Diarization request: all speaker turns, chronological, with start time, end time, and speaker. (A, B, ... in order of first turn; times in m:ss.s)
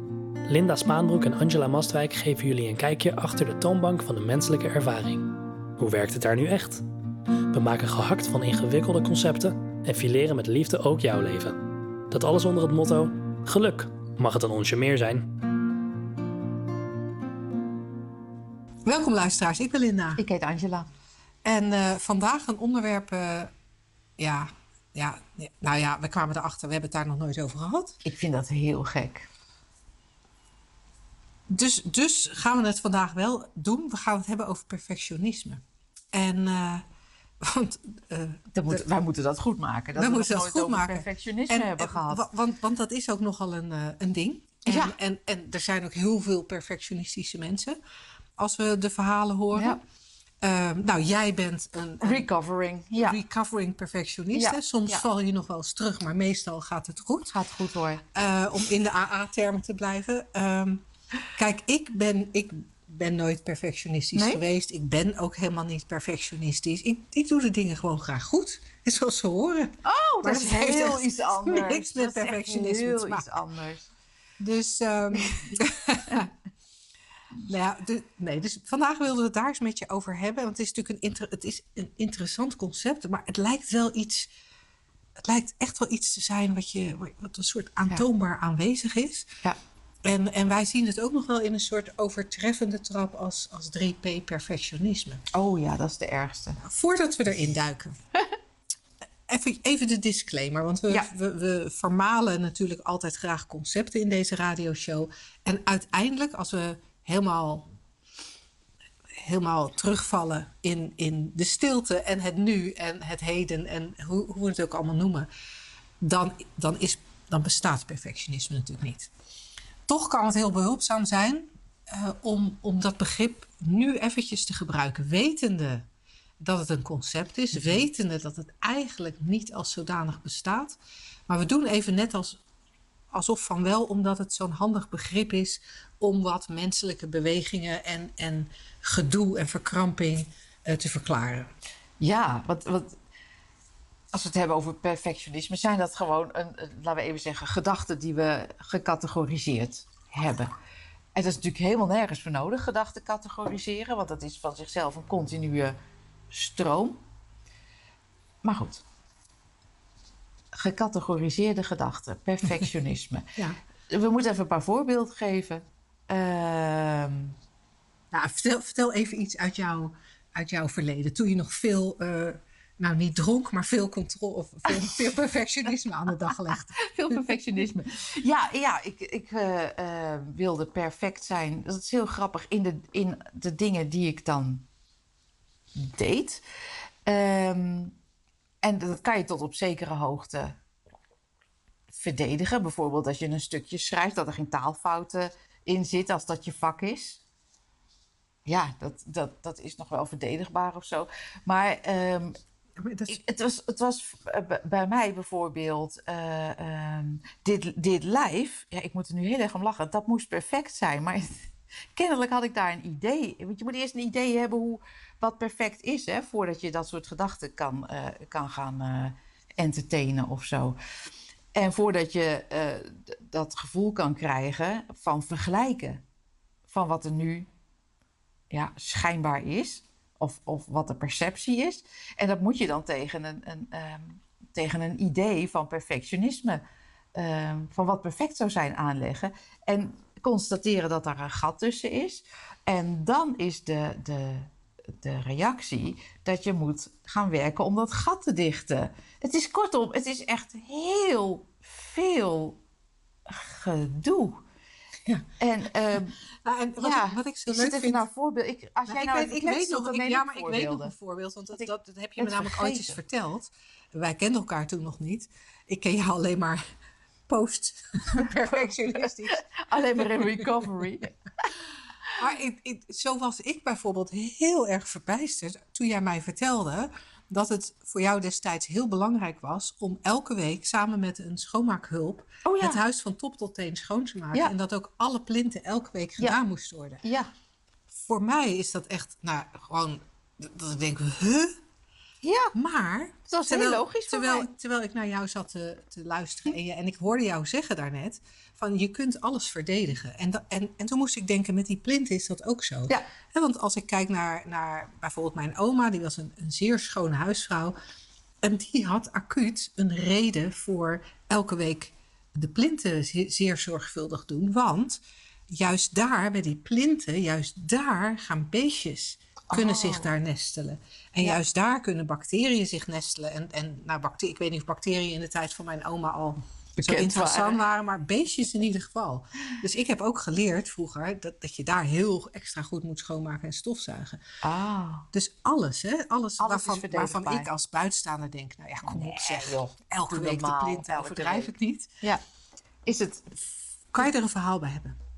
0:00.5-0:06.8 A
0:07.5-0:11.6 A
0:12.1-0:15.3 A
0:18.8-0:20.2 B
0:20.2-0:20.9 C
0:21.4-0:23.5 B
0:24.2-0:28.0 B
0:28.0-0:29.3 C
0:31.5-0:35.6 B
0:36.1-0:36.8 B
0:37.4-0:38.8 B
0:38.5-0:42.2 C
0:40.0-0:47.8 B
0:44.7-0:45.0 C
0:48.4-0:49.8 B
0:49.5-0:49.8 C
0:50.4-0:52.3 B
0:52.0-0:53.2 C
0:53.0-0:57.4 B
0:54.3-0:55.0 C
0:57.3-0:58.0 C
0:58.1-1:00.8 B
1:01.4-1:13.4 B
1:04.1-1:04.4 C
1:09.8-1:13.9 C
1:14.4-1:16.3 B
1:17.5-1:24.3 B
1:25.2-1:29.4 B
1:30.0-1:35.2 B
1:35.3-1:36.6 C
1:36.6-1:38.0 B
1:39.3-1:47.7 B
1:49.1-1:55.3 B
1:56.0-1:59.1 B
1:59.9-2:05.9 B
2:06.4-2:12.4 B
2:13.1-2:21.5 B
2:22.0-2:23.0 C
2:24.1-2:30.5 C
2:31.2-2:35.8 C
2:36.3-2:37.0 C
2:38.4-2:38.8 C
2:40.5-2:43.3 C
2:43.9-2:47.3 C
2:48.1-2:57.4 B
2:54.8-2:55.0 C
2:56.5-3:04.7 C
3:05.8-3:06.4 C
3:07.1-3:08.0 C
3:08.6-3:10.6 C
3:11.9-3:17.2 C
3:18.5-3:22.4 C
3:22.8-3:23.2 B
3:23.1-3:31.4 C
3:32.0-3:40.8 C
3:41.6-3:46.0 C
3:46.7-3:47.5 C
3:48.5-3:56.6 C
3:57.2-4:12.6 C
4:13.3-4:14.4 C
4:15.4-4:16.2 C
4:16.4-4:18.0 B
4:16.8-4:20.9 C
4:18.9-4:26.6 B
4:21.6-4:23.0 C
4:27.3-4:29.4 B
4:28.1-4:31.2 C
4:30.0-4:30.5 B
4:32.2-4:47.0 B
4:42.4-4:42.8 C
4:47.0-4:47.3 C
4:47.9-4:51.6 B
4:52.2-4:52.5 C
4:52.5-5:07.8 B
4:53.3-4:54.5 C
5:08.4-5:34.2 B
5:19.5-5:20.1 C
5:26.8-5:27.6 C
5:34.4-5:35.1 C
5:35.1-5:41.9 B
5:36.4-5:37.5 C
5:38.8-5:42.2 C
5:42.9-5:43.4 C
5:43.9-5:45.0 B